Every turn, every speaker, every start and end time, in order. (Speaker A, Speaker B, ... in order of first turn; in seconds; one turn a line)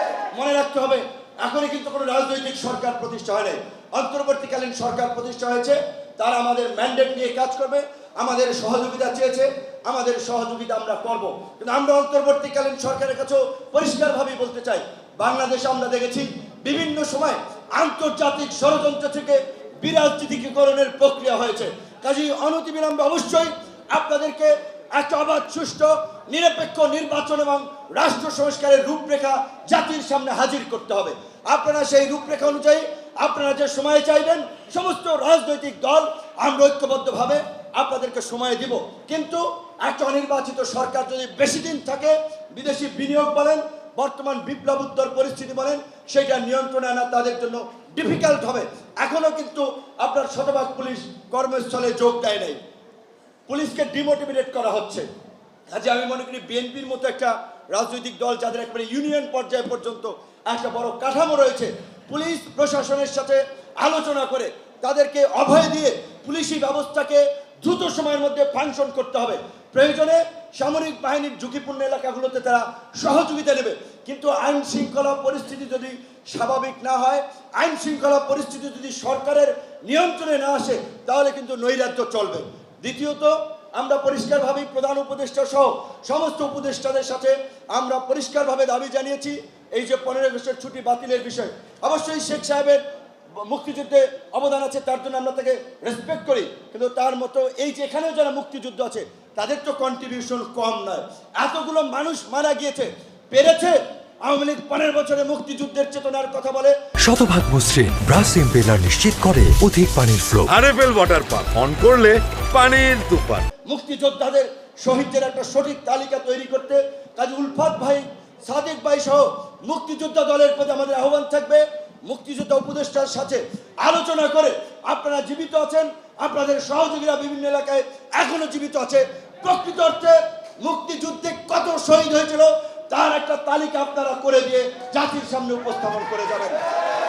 Speaker A: 0.3-52.6
Speaker A: 53.5-55.0
Speaker A: 55.7-92.8
Speaker A: 93.4-106.8
Speaker B: 107.0-110.7
Speaker C: 110.5-111.7
Speaker B: 111.6-112.4
Speaker C: 112.3-113.5
Speaker A: 113.6-136.6